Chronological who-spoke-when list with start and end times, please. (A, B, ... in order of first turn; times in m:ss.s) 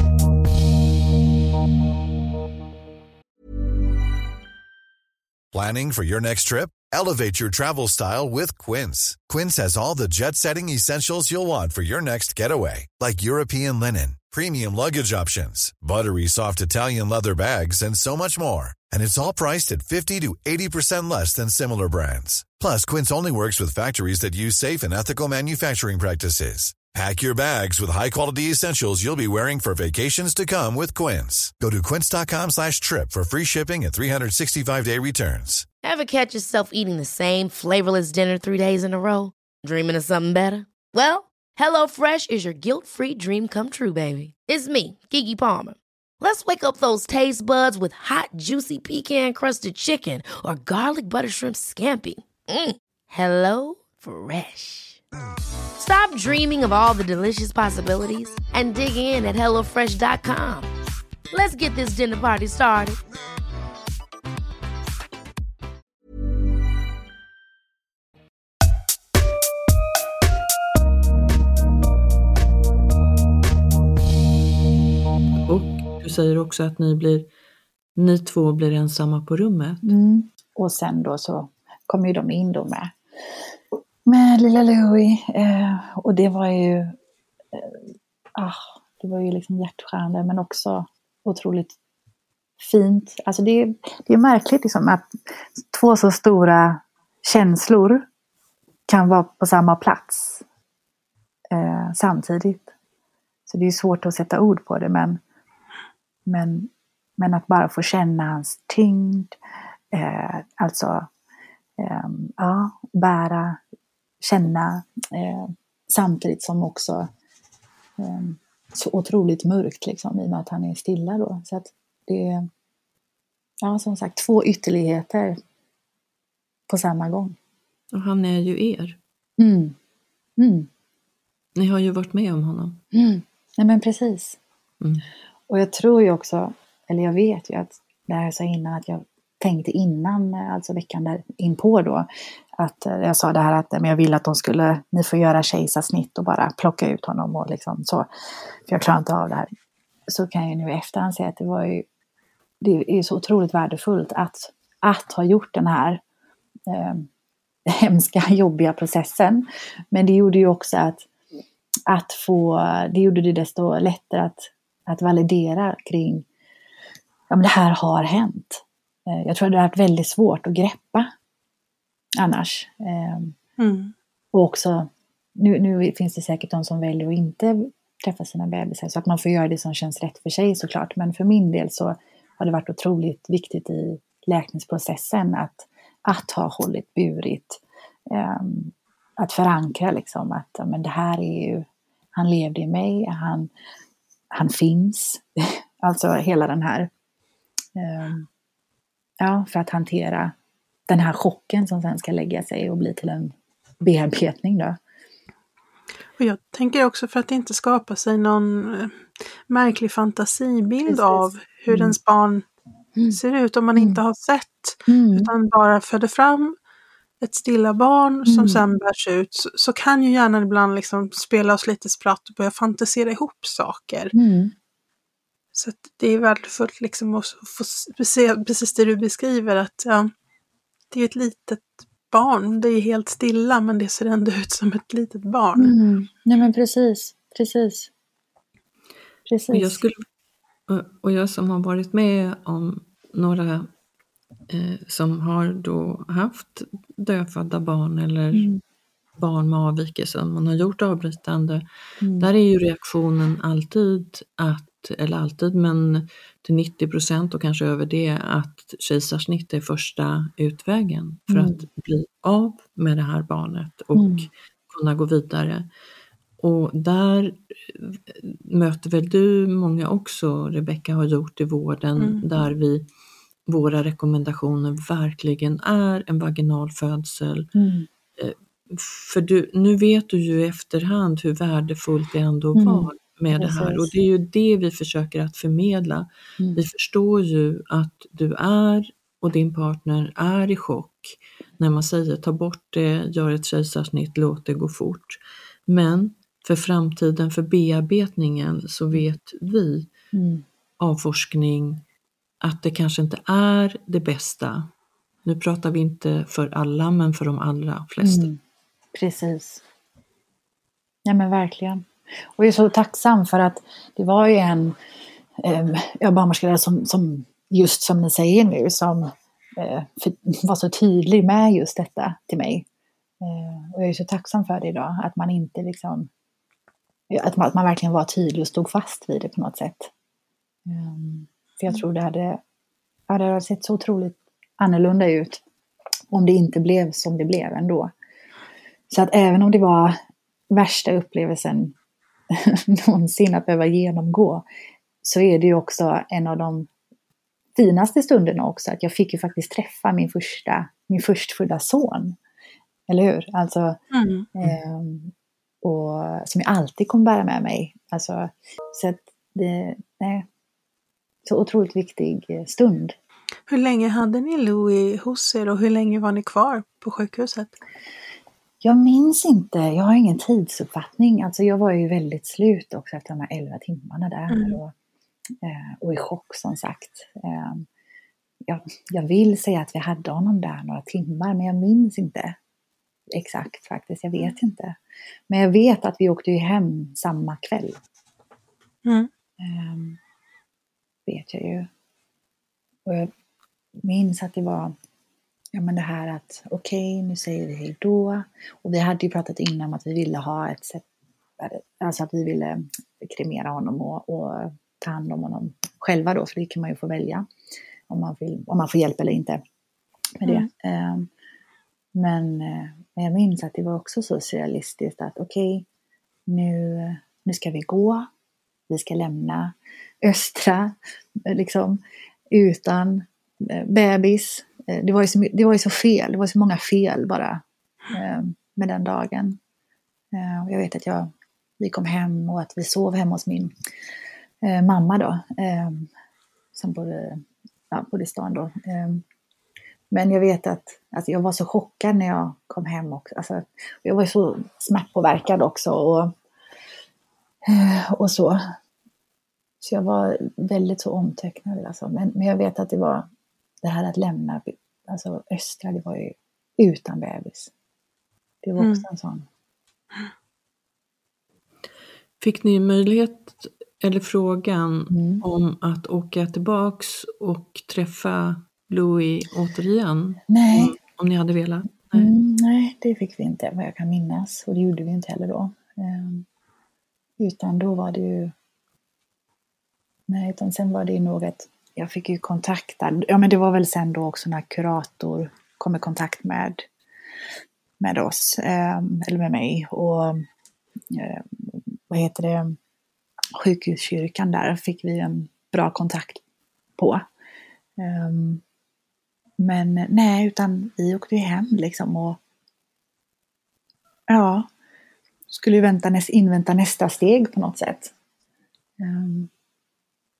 0:05.5-0:35.6 A
0:35.8-0:55.0 B
0:55.8-1:00.7 B
1:01.3-1:03.0 B
1:15.4-1:17.3 C
1:18.0-1:19.9 C
1:19.8-1:22.9 D
1:24.0-1:27.0 D
1:27.5-1:27.8 D
1:28.3-1:31.8 D
1:32.6-1:38.0 D
1:38.9-1:40.4 D
1:41.5-1:42.7 D
1:43.5-1:45.2 D
1:46.2-1:49.3 D
1:49.9-1:51.1 D
1:51.8-1:53.6 D
1:54.2-1:57.1 D
1:58.0-2:02.5 D
2:03.6-2:05.4 D
2:06.7-2:07.4 D
2:07.9-2:09.0 C
2:09.4-2:09.8 D
2:10.4-2:10.7 D
2:11.6-2:12.8 C
2:12.9-2:14.4 D
2:14.8-2:15.0 C
2:15.5-2:28.1 D
2:28.7-2:29.5 D
2:30.1-2:31.8 D
2:32.6-2:36.0 D
2:36.7-2:37.1 D
2:37.6-2:41.0 D
2:41.9-2:46.2 D
2:47.3-2:51.1 D
2:52.2-2:53.4 D
2:53.6-2:53.9 E
2:54.3-3:13.5 D
3:14.3-3:16.9 D
3:17.7-3:18.3 D
3:19.2-3:20.3 D
3:20.9-3:24.8 D
3:26.2-3:32.4 E
3:30.8-3:31.9 D
3:33.1-3:36.5 E
3:34.9-3:35.3 D
3:37.2-3:44.1 E
3:38.2-3:38.6 D
3:44.1-3:44.5 D
3:45.5-3:50.1 E
3:50.9-3:55.7 E
3:55.5-3:57.9 D
3:59.2-3:59.8 D
3:59.5-4:00.0 C
4:00.7-4:03.7 C
4:04.5-4:08.5 C
4:08.3-4:08.6 D
4:09.2-4:11.6 C
4:12.0-4:12.3 D
4:12.2-4:25.7 C
4:21.3-4:21.6 D
4:23.9-4:24.3 D
4:26.4-4:32.9 C
4:32.0-4:32.2 E
4:33.5-4:37.5 C
4:37.5-4:37.9 D
4:38.2-4:59.9 C
4:42.6-4:43.9 D
5:00.1-5:00.4 D
5:00.8-5:01.8 C
5:02.4-5:04.7 C
5:05.2-5:08.3 C
5:08.0-5:08.4 D
5:08.9-5:09.6 D
5:11.0-5:11.8 D
5:12.4-5:14.8 D
5:15.4-5:22.6 D
5:23.2-5:26.1 D
5:27.1-5:29.9 D
5:30.6-5:32.4 D
5:33.1-5:35.4 D
5:36.1-5:37.9 D
5:38.9-5:40.0 D
5:40.5-5:41.7 D
5:42.3-5:44.4 D
5:45.0-5:46.7 D
5:47.6-5:52.2 D
5:52.9-5:53.8 D
5:53.9-5:54.3 E
5:54.4-6:00.3 D
6:01.2-6:03.0 D
6:03.5-6:07.5 E
6:08.6-6:14.7 D
6:14.3-6:14.6 E
6:15.4-6:17.6 D
6:18.4-6:22.4 D
6:23.1-6:24.8 D
6:25.3-6:27.8 D
6:29.4-6:30.0 D
6:31.0-6:31.7 D
6:32.8-6:33.1 D
6:33.8-6:34.7 D
6:35.5-6:40.8 D
6:41.4-6:47.3 D
6:47.9-6:49.4 D
6:50.2-6:51.1 D
6:51.9-6:55.6 D
6:56.3-6:58.1 D
6:58.7-7:09.4 D
7:10.1-7:13.5 D
7:14.4-7:15.9 D
7:16.5-7:19.0 D
7:19.9-7:26.1 D
7:27.4-7:28.4 D
7:29.6-7:33.0 D
7:33.6-7:37.5 D
7:38.4-7:39.2 D
7:38.6-7:38.8 E
7:42.2-7:52.1 C
7:44.9-7:45.2 D
7:50.3-7:50.8 D
7:51.9-7:56.2 D
7:57.2-7:58.3 D
8:00.1-8:06.6 D
8:07.8-8:10.2 D
8:10.9-8:12.6 D
8:13.4-8:16.2 D
8:16.8-8:17.0 D
8:17.8-8:18.4 D
8:19.4-8:22.2 D
8:24.1-8:24.5 D
8:25.3-8:27.9 D
8:28.8-8:29.3 D